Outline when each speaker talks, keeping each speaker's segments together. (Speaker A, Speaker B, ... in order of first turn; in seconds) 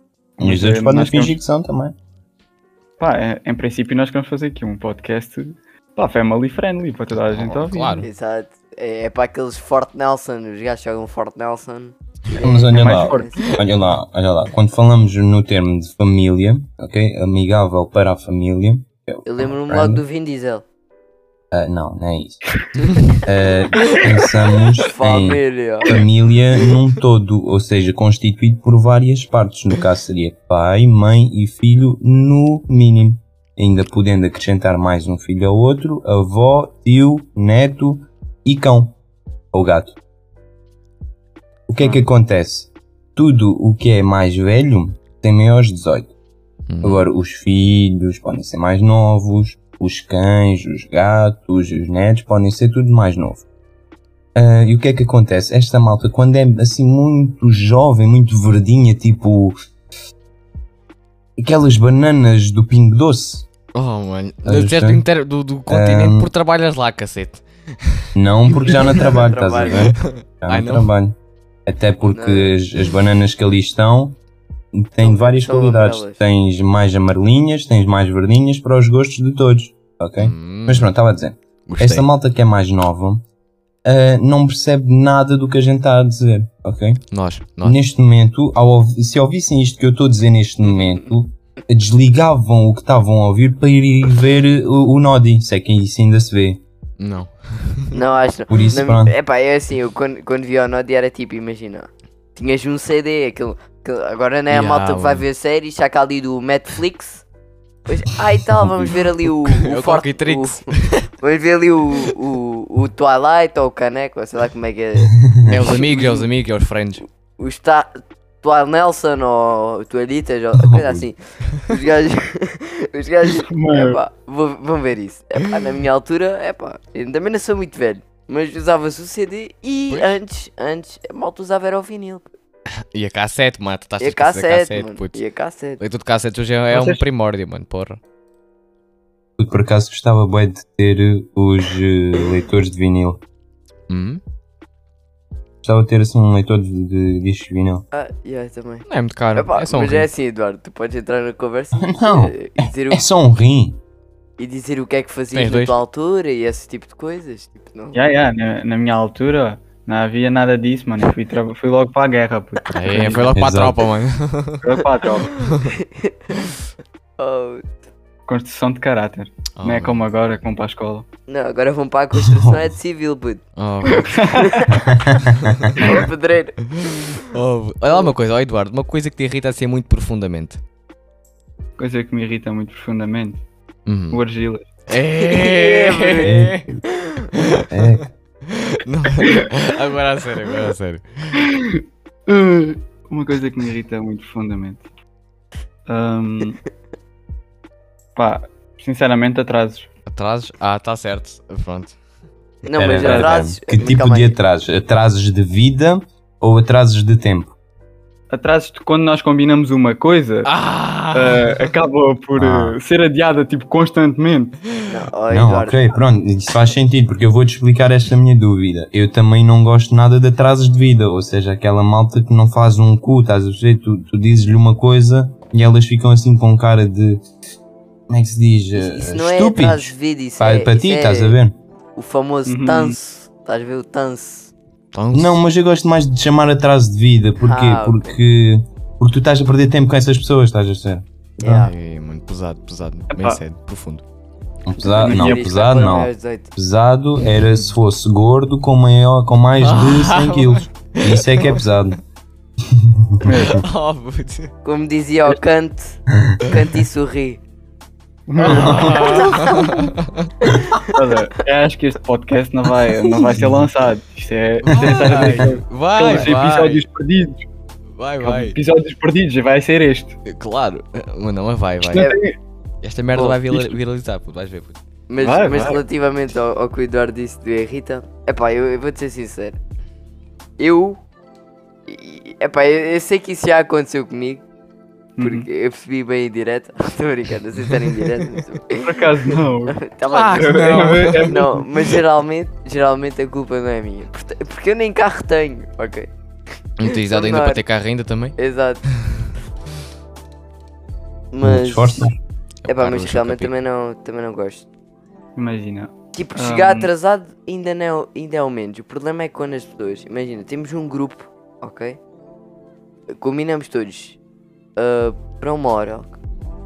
Speaker A: 0.4-1.4, 3.0-8.1, 12.7-13.3, 123.3-124.0, 136.7-137.0, 157.9-163.3, 164.6-165.4, 168.3-171.1, 174.1-174.7, 181.8-183.4, 184.1-184.7, 191.4-194.8, 195.9-196.6, 198.2-199.9, 203.0-203.3, 208.3-210.5, 211.1-214.6, 232.5-233.0, 243.1-243.4, 245.0-245.5, 253.2-253.7, 258.3-259.6, 260.8-267.4, 268.2-270.2, 271.8-272.4, 275.2-275.8, 285.2-285.5, 288.8-289.8, 290.4-291.6, 305.4-306.9
Speaker B: 0.4-1.9, 12.4-20.0, 21.5-22.4, 23.1-39.0, 39.5-40.0, 41.7-46.1, 46.8-53.5, 54.4-59.5, 61.4-63.5, 64.5-65.0, 65.7-66.3, 68.2-74.2, 74.7-83.2, 83.8-87.0, 87.6-96.6, 98.5-99.1, 108.6-108.9, 115.3-115.6, 120.6-121.1, 139.4-143.2, 145.6-147.8, 151.8-153.8, 163.3-163.8, 172.2-172.6, 174.9-175.5, 186.2-186.8, 187.7-188.1, 202.8-207.6, 212.4-212.8, 215.3-227.2, 228.1-231.6, 235.1-241.6, 244.7-252.0, 252.7-253.6, 258.5-259.1, 263.3-263.6, 264.9-265.3, 301.4-302.2
Speaker C: 7.1-8.1, 46.7-47.0, 63.7-70.9, 80.2-80.9, 81.7-82.1, 87.1-87.8, 97.0-98.0, 104.5-105.3, 109.4-111.1, 115.5-117.0, 129.9-130.2, 132.9-135.2, 135.8-138.0, 143.9-144.2, 148.9-150.1, 155.3-155.7, 162.7-164.7, 165.3-165.7, 169.6-170.4, 173.6-174.4, 175.4-175.9, 176.8-180.6, 183.9-184.2, 184.9-186.8, 187.3-191.4, 200.1-202.0, 210.4-211.7, 234.9-235.4, 241.5-244.0, 249.6-251.6, 253.4-254.5, 258.4-260.3, 264.6-266.8, 268.0-268.6, 270.3-272.2, 272.8-274.8, 290.1-291.5, 296.8-298.4, 302.6-303.5
Speaker D: 8.0-13.6, 19.2-20.6, 24.8-25.9, 68.7-69.9, 72.0-72.5, 75.0-76.2, 97.9-107.2, 107.9-116.3, 117.4-132.3, 134.0-135.8, 147.9-153.0, 154.4-158.0, 165.6-166.4, 167.2-167.7, 171.3-174.8, 175.8-177.3, 185.2-186.4, 187.0-187.2, 202.6-204.4, 214.9-216.0, 228.8-231.4, 232.0-234.5, 237.4-238.2, 241.4-241.7, 244.8-246.5, 254.7-257.4, 271.9-272.2, 273.1-273.4, 275.1-279.6, 280.6-281.0, 281.9-284.4, 285.2-289.0, 289.7-296.1, 296.9-297.6, 298.4-298.8, 301.3-302.1, 302.7-304.6, 306.1-312.0, 313.1-314.2, 314.8-316.2